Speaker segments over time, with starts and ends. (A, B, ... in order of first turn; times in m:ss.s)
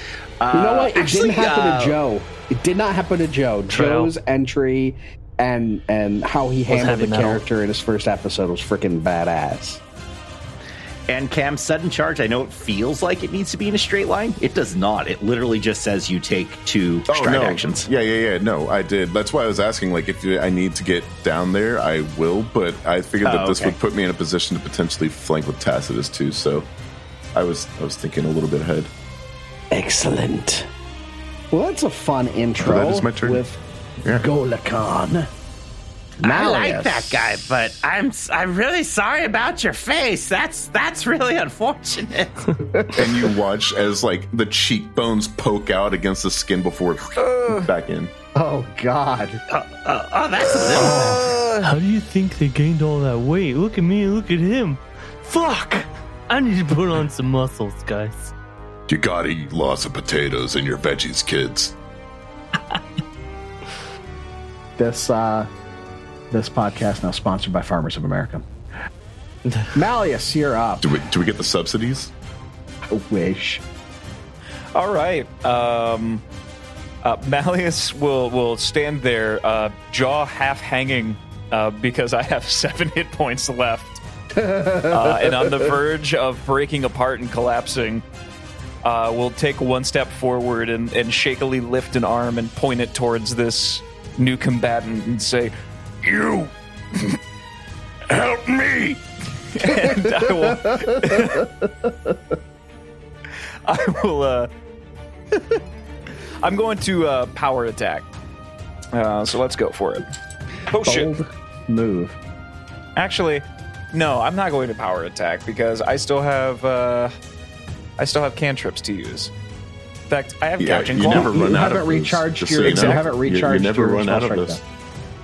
0:00.4-0:02.0 A
0:00.5-0:09.8 B
0:03.7-0:04.1 C
0:06.7-0:07.4 C
0:11.1-0:17.9 A
0:17.1-0:26.7 D
0:23.2-0:23.7 A
0:27.3-0:28.9 D
0:29.7-0:30.7 B
0:31.5-0:33.6 B
0:32.6-0:33.4 D
0:34.0-0:34.3 D
0:34.2-0:35.3 B
0:36.2-0:42.4 A
0:36.2-0:37.2 B
0:42.6-0:43.2 B
0:42.9-0:48.1 D
0:47.2-0:47.6 E
0:48.3-0:49.4 B
0:49.5-0:51.2 A
0:50.7-0:51.4 B
0:50.9-0:51.4 E
0:51.6-0:58.3 C
0:58.9-1:01.7 D
1:04.8-1:05.5 B
1:06.3-1:08.4 B
1:09.7-1:10.9 B
1:10.8-1:12.1 D
1:12.9-1:13.6 B
1:14.7-1:16.2 E
1:17.0-1:24.0 E
1:24.4-1:25.5 B
1:24.8-1:28.0 E
1:28.8-1:37.2 E
1:38.1-1:41.5 E
1:43.6-1:44.5 E
1:45.3-1:45.6 E
1:46.4-1:48.1 E
1:48.9-1:50.1 E
1:50.7-1:51.1 E
1:50.8-1:52.2 B
1:53.0-1:57.1 E
1:58.0-1:59.3 E
2:00.1-2:01.6 E
2:00.6-2:04.6 D
2:01.0-2:04.6 B
2:02.6-2:03.1 E